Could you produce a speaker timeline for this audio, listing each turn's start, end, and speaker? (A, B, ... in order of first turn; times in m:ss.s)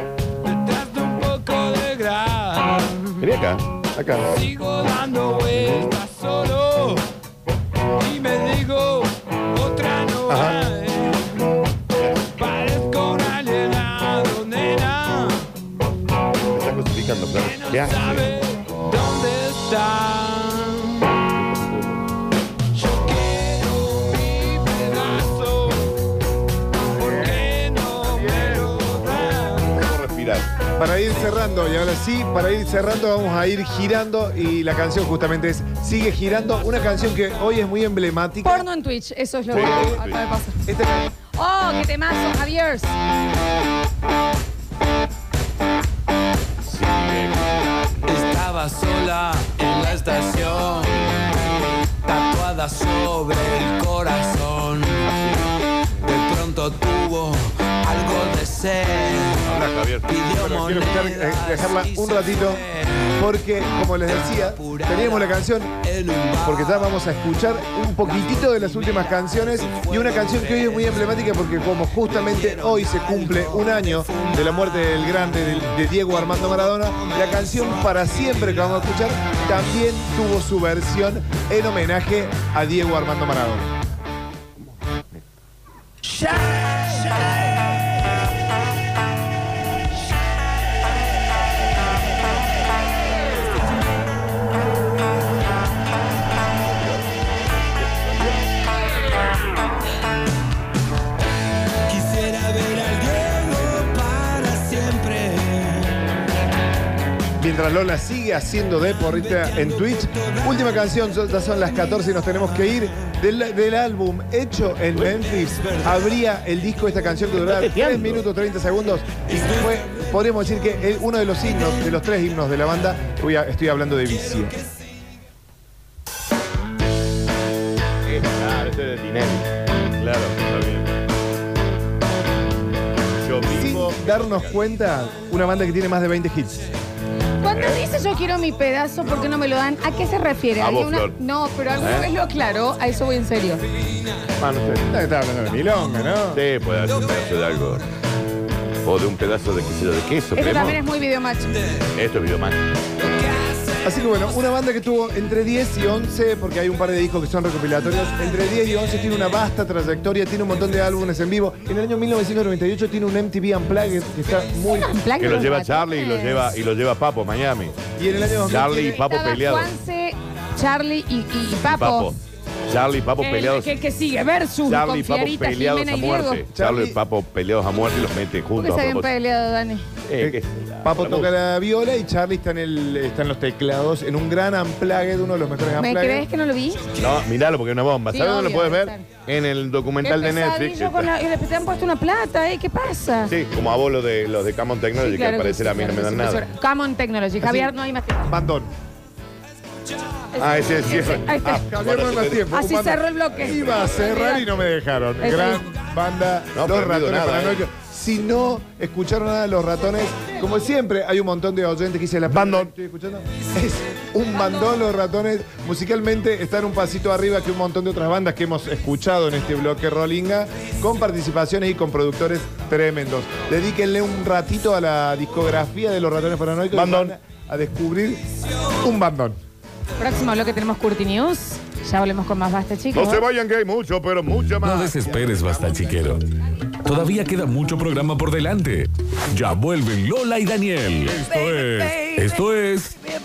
0:00.4-0:03.1 A
0:03.2-0:04.3 B
0:04.3-0:07.0 A
0:05.5-0:05.9 B
0:08.0-0:11.3 A
0:10.3-0:10.6 B
0:12.0-0:12.8 B
0:12.4-0:15.5 A
0:16.5-0:18.4 B
0:17.3-0:21.0 A
0:21.2-0:22.0 B
0:22.8-0:25.9 A
0:27.0-0:29.8 A
0:28.0-0:30.6 B
0:30.7-0:38.6 C
0:38.4-0:40.6 D
0:39.5-0:40.2 B
0:40.6-0:41.1 C
0:41.3-0:42.9 D
0:46.6-0:48.3 B
0:48.1-0:51.0 A
0:52.0-0:55.1 A
0:55.2-0:55.5 B
0:56.0-0:59.4 A
0:59.4-1:00.1 B
1:00.1-1:03.1 A
1:00.3-1:02.6 C
1:03.2-1:05.7 C
1:03.9-1:05.4 A
1:05.9-1:06.9 A
1:06.4-1:23.7 C
1:08.1-1:11.2 A
1:11.8-1:15.4 A
1:17.2-1:18.4 A
1:24.6-1:25.2 B
1:41.9-1:45.8 A
1:47.4-2:04.6 C
1:54.9-1:55.2 B
1:57.4-1:58.2 B
2:08.0-2:10.9 B
2:13.2-2:14.6 B
2:13.4-2:16.7 C
2:17.4-2:23.6 D
2:17.5-2:17.8 B
2:20.6-2:21.2 B
2:21.8-2:22.1 B
2:24.4-2:24.9 B
2:24.9-2:26.4 C
2:26.3-2:27.8 B
2:28.8-2:30.8 B
2:30.3-2:31.6 D
2:31.9-2:32.6 B
2:33.8-2:45.0 C
2:44.6-2:46.5 D
2:45.2-2:47.8 B
2:47.9-2:49.0 C
2:48.5-2:49.7 B
2:48.8-2:52.1 D
2:51.6-2:53.8 B
2:53.2-2:56.5 D
2:54.6-2:59.1 B
2:56.5-2:57.0 C
2:58.5-2:59.9 D
3:00.1-3:01.3 B
3:00.2-3:06.2 C
3:05.8-3:06.8 D
3:07.0-3:11.1 B
3:08.1-3:09.1 D
3:10.0-3:13.3 D
3:13.3-3:16.4 B
3:14.9-3:18.3 D
3:17.4-3:17.7 C
3:18.3-3:18.7 C
3:20.4-3:21.6 D
3:20.4-3:22.5 B
3:21.4-3:48.3 C
3:22.5-3:24.6 D
3:23.3-3:24.6 B
3:25.2-3:25.7 D
3:26.5-3:27.6 B
3:32.3-3:32.7 B
3:46.7-3:47.2 B
3:48.8-3:49.4 C
3:50.0-3:53.2 D
3:52.9-3:56.2 B
3:54.6-3:56.2 E
3:56.8-4:03.0 E
4:01.7-4:02.4 D